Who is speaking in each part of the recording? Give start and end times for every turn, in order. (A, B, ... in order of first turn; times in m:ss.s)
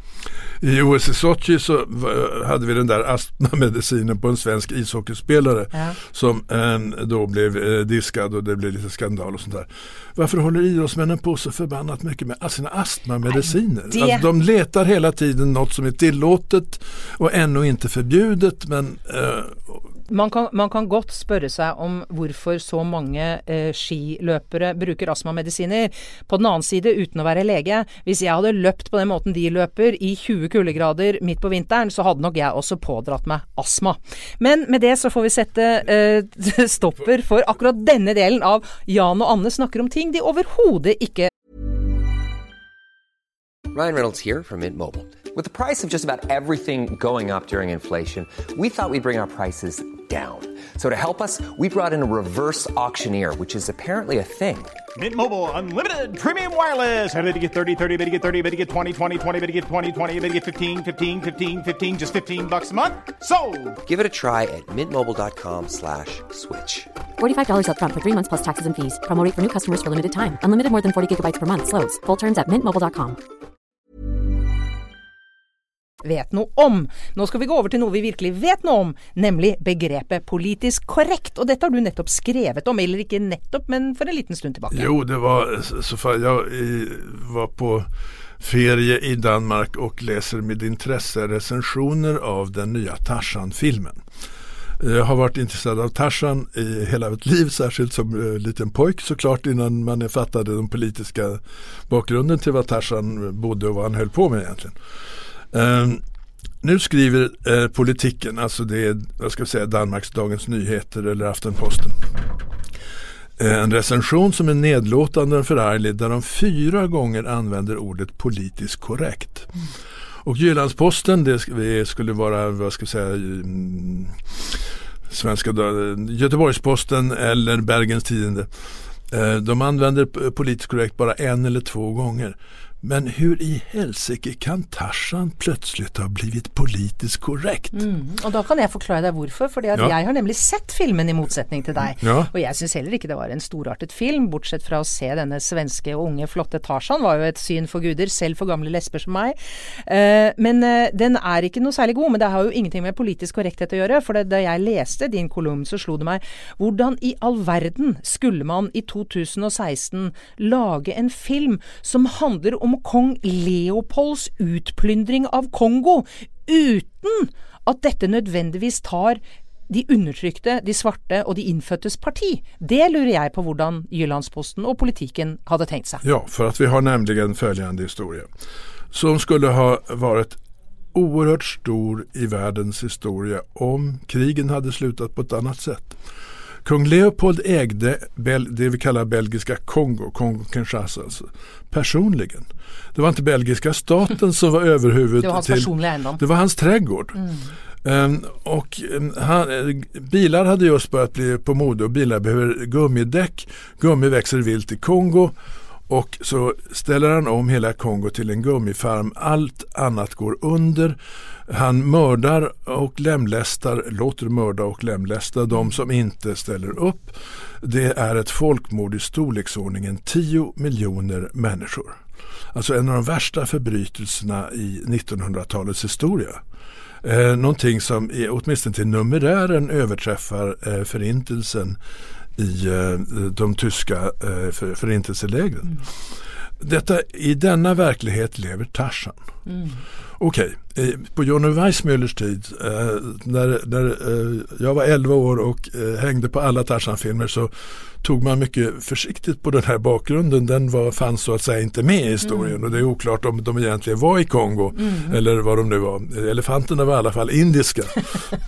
0:00.6-0:19.8 A
0:13.3-0:14.2 B
0:20.1-0:41.3 B
0:43.7-0:54.8 C
0:54.9-1:03.8 D
1:03.8-1:06.9 C
1:07.2-1:13.2 E
1:16.0-1:24.9 B
1:24.7-1:27.9 A
1:28.4-1:34.0 A
1:34.8-1:44.8 A
1:45.5-1:46.0 A
1:46.6-1:52.1 A
1:53.4-1:59.5 A
2:00.2-2:17.8 A
2:17.7-2:56.0 B
2:22.0-2:22.3 A
2:56.0-2:58.3 A
2:58.9-3:00.4 A
3:00.9-3:06.0 A
3:06.6-3:17.2 A
3:15.2-3:16.2 B
3:17.8-3:25.3 A
3:25.9-3:42.0 A
3:42.5-3:46.4 A
3:47.0-3:51.8 A
3:52.4-3:55.8 A
3:56.6-3:59.2 A
3:59.4-3:59.8 B
4:00.2-4:18.2 A
4:12.2-4:12.6 B
4:14.8-4:15.1 B